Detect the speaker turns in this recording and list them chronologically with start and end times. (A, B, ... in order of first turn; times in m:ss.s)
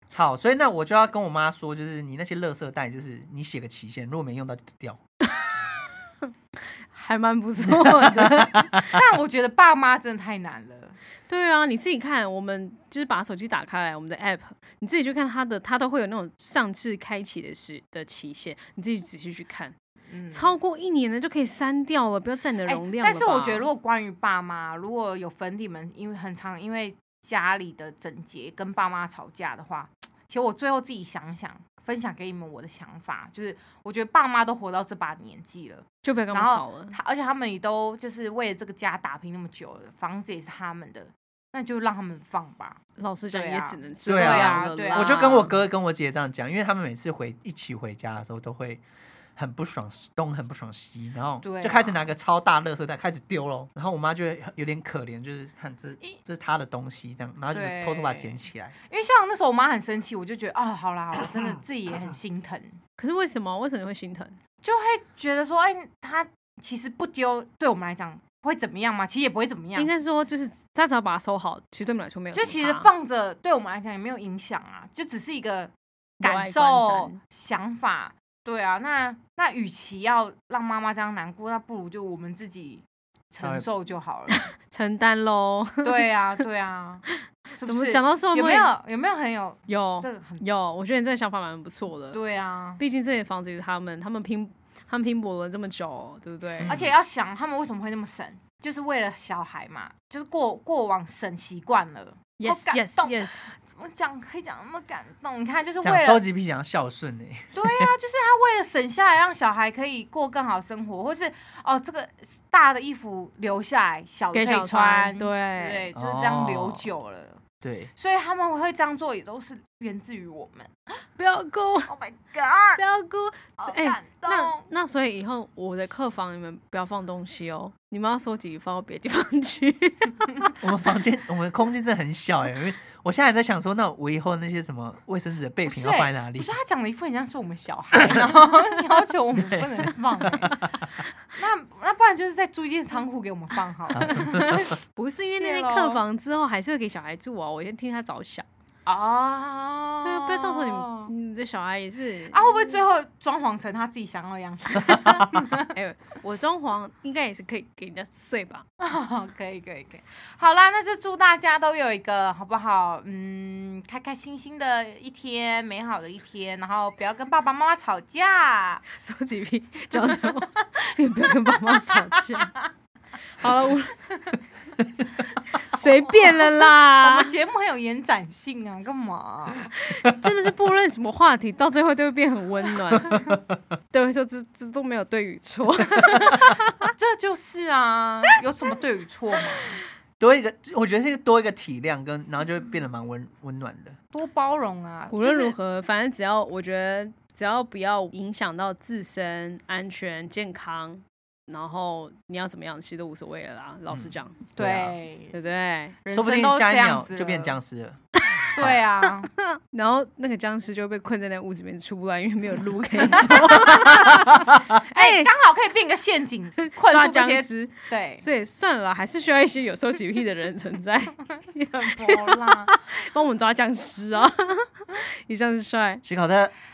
0:00.1-0:05.0 A
0:06.2-0:08.8 B
0:07.6-0:09.0 A
0:08.8-0:11.0 C
0:11.3-0:19.8 B
0:20.1-0:20.5 C
0:20.3-0:23.7 B
0:22.6-0:42.8 C
0:36.0-0:37.0 B
0:43.0-0:45.5 B
0:43.3-0:45.4 C
0:44.0-0:48.8 A
0:49.4-0:58.7 A
0:51.4-0:52.0 C
0:57.5-1:02.8 C
1:03.0-1:04.4 B
1:04.6-1:09.9 C
1:09.8-1:12.9 B
1:12.3-1:24.5 C
1:16.2-1:17.2 B
1:23.4-1:23.6 A
1:24.3-1:26.0 B
1:25.8-1:30.4 C
1:27.1-1:28.7 B
1:29.7-1:32.2 B
1:32.1-1:32.8 C
1:32.8-1:36.8 B
1:36.6-1:37.0 A
1:36.6-1:46.2 C
1:42.4-1:43.5 B
1:45.8-1:47.9 A
1:47.5-1:57.4 C
1:54.3-1:55.9 B
1:55.9-1:56.9 A
1:57.6-1:57.9 A
1:58.0-2:00.7 C
2:01.2-2:01.9 B
2:01.9-2:02.8 C
2:02.8-2:10.5 B
2:03.6-2:04.6 C
2:10.6-2:16.5 A
2:15.7-2:20.6 C
2:18.0-2:18.3 A
2:19.3-2:20.9 A
2:21.3-2:26.0 C
2:23.9-2:24.7 A
2:24.4-2:28.4 B
2:28.8-2:31.1 C
2:30.0-2:32.8 B
2:32.3-2:35.7 C
2:35.6-2:38.6 B
2:38.8-2:48.8 C
2:48.9-2:52.5 B
2:49.9-2:52.4 C
2:53.4-2:54.0 B
2:55.4-2:57.3 B
2:55.8-2:59.7 C
2:59.7-3:03.2 B
3:03.1-3:03.4 A
3:03.9-3:06.9 B
3:06.9-3:09.8 C
3:10.2-3:14.0 A
3:14.1-3:15.6 C
3:15.1-3:24.4 B
3:23.9-3:25.0 A
3:24.6-3:25.3 C
3:25.3-3:26.0 B
3:26.0-3:27.6 C
3:26.1-3:28.0 A
3:28.5-3:29.3 C
3:29.0-3:35.3 B
3:33.1-3:38.2 C
3:36.6-3:46.0 B
3:41.6-3:42.7 C
3:46.0-3:46.5 A